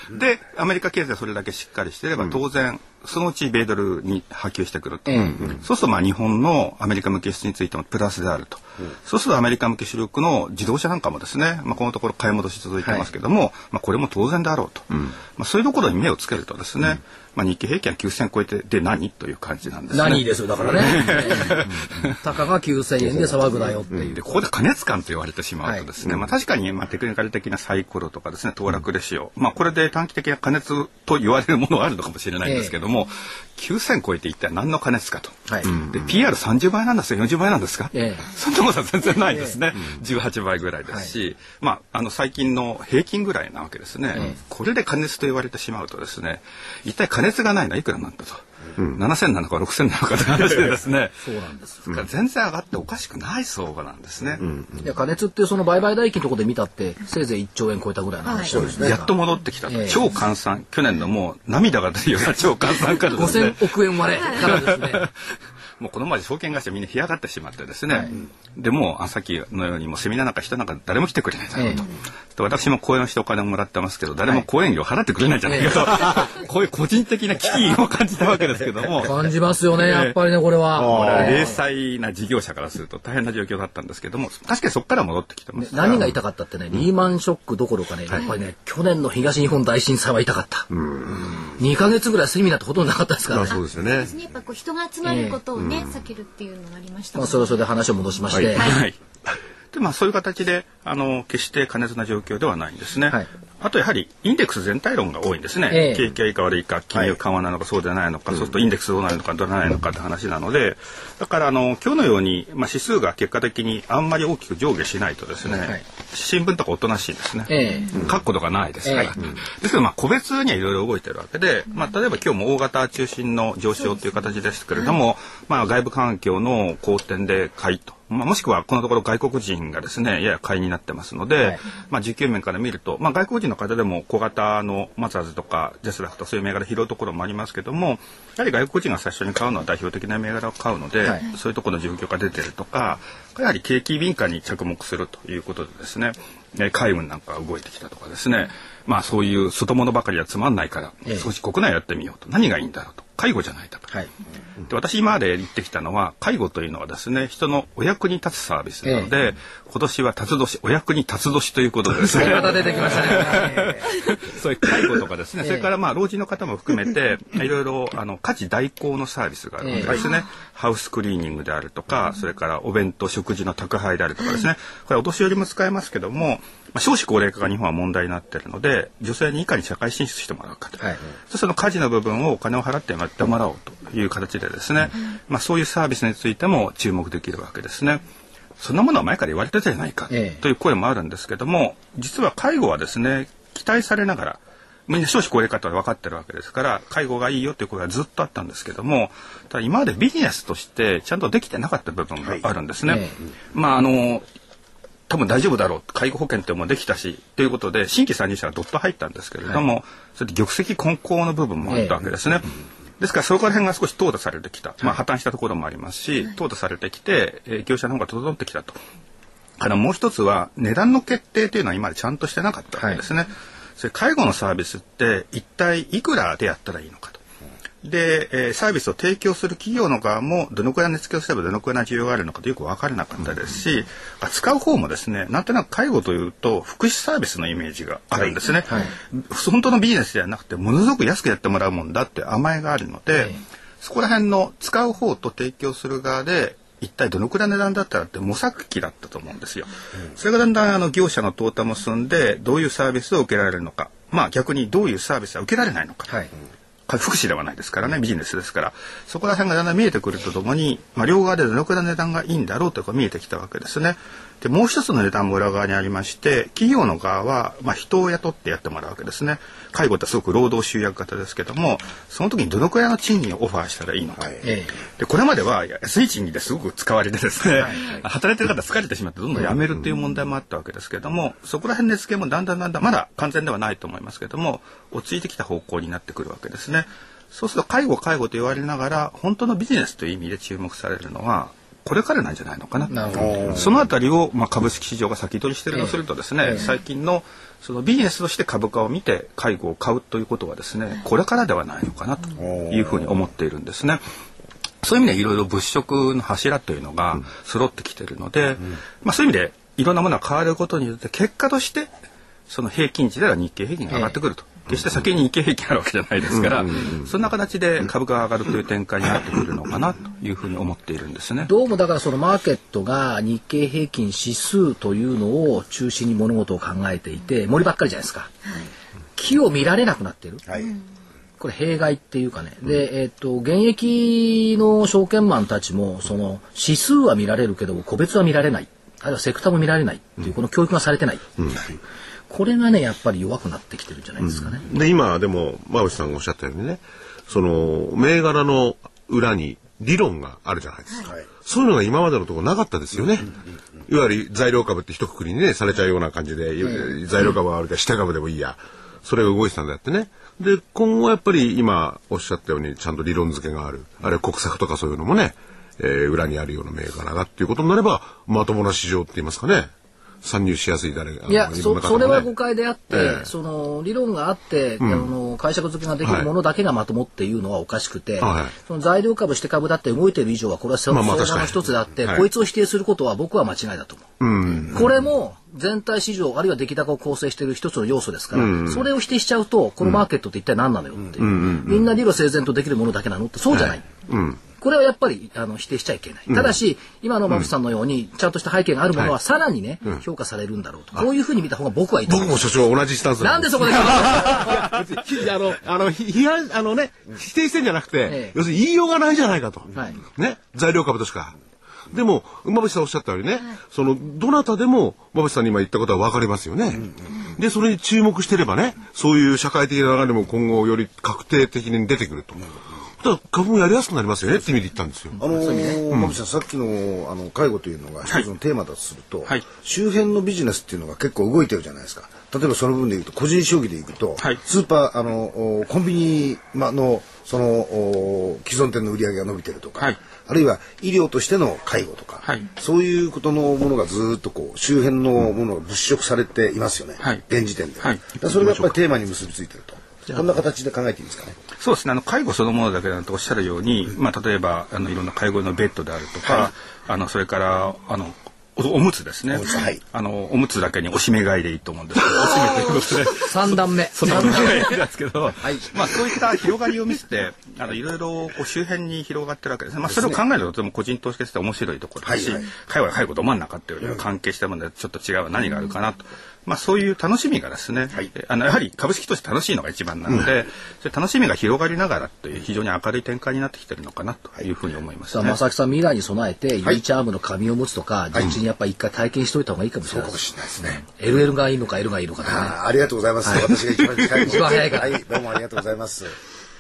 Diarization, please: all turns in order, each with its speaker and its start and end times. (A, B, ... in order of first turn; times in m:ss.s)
0:00.1-0:22.1 A
0:05.1-0:05.4 B
0:19.9-0:24.2 B
0:24.2-0:51.2 A
0:32.4-0:32.7 B
0:35.5-0:35.7 B
0:37.9-0:38.3 B
0:51.2-0:51.8 B
0:51.9-0:54.4 A
0:54.4-0:54.8 C
0:54.8-0:59.1 B
0:58.2-0:58.6 D
0:58.5-0:59.0 E
0:58.8-1:05.1 A
0:59.7-1:00.0 B
1:03.1-1:05.1 B
1:05.8-1:19.2 A
1:11.6-1:11.8 B
1:15.4-1:15.9 B
1:19.0-1:21.6 B
1:19.8-1:20.2 A
1:20.8-1:21.5 C
1:20.8-1:26.0 A
1:25.6-1:30.7 B
1:30.7-1:31.4 C
1:31.3-1:33.6 B
1:33.3-1:34.1 C
1:33.5-1:37.6 D
1:35.0-1:35.4 B
1:35.6-1:35.9 C
1:37.2-1:38.7 B
1:38.6-1:38.8 D
1:38.6-1:39.0 A
1:39.7-2:33.9 A
1:45.7-1:46.1 B
1:55.5-1:55.8 B
1:57.5-1:57.9 B
1:57.6-1:58.0 D
1:58.8-1:59.1 B
2:34.7-3:08.0 A
2:38.8-2:39.1 B
2:41.9-2:43.9 B
2:45.4-2:45.7 B
2:49.6-2:50.0 B
3:08.6-3:24.3 A
3:10.1-3:10.4 B
3:22.9-3:23.2 B
3:25.1-3:38.8 A
3:31.7-3:32.0 B
3:39.6-3:47.2 A
3:47.8-4:16.1 A
3:58.7-3:58.9 B
4:16.9-4:34.4 A
4:34.4-4:34.7 B
4:35.0-5:04.0 A
4:52.9-4:53.4 B
4:53.1-4:53.8 E
4:55.7-4:56.6 B
5:02.4-5:03.1 E
5:04.8-5:11.9 A
5:12.5-5:21.5 A
5:13.9-5:14.2 B
5:21.4-5:28.3 B
5:29.2-5:30.4 B
5:30.4-5:30.7 E
5:31.4-5:41.2 B
5:42.3-5:44.6 B
5:44.2-5:53.3 C
5:53.9-6:09.7 C
6:10.2-6:12.3 C
6:11.3-6:24.1 B
6:12.9-6:13.3 C
6:14.8-6:15.1 C
6:16.0-6:16.3 C
6:18.2-6:18.5 C
6:20.9-6:22.3 C
6:24.2-6:24.9 C
6:24.7-6:33.9 B
6:28.3-6:28.8 C
6:31.2-6:31.9 C
6:33.5-6:34.4 C
6:34.6-6:42.5 B
6:42.1-6:51.4 C
6:43.2-6:44.8 B
6:48.1-6:48.4 B
6:49.8-6:50.0 B
6:51.9-7:02.5 C
7:03.0-7:05.2 C
7:05.2-7:05.8 B
7:05.2-7:31.4 E
7:05.9-7:06.2 C
7:22.2-7:22.5 A
7:28.4-7:28.7 C
7:31.6-8:05.4 A
7:39.3-7:39.8 E
7:43.2-7:44.8 B
7:45.4-7:45.8 B
7:49.9-7:50.2 E
7:52.0-7:52.4 E
8:05.1-8:10.2 B
8:09.9-8:10.8 E
8:10.8-8:12.6 B
8:12.2-8:16.2 E
8:13.2-8:15.0 B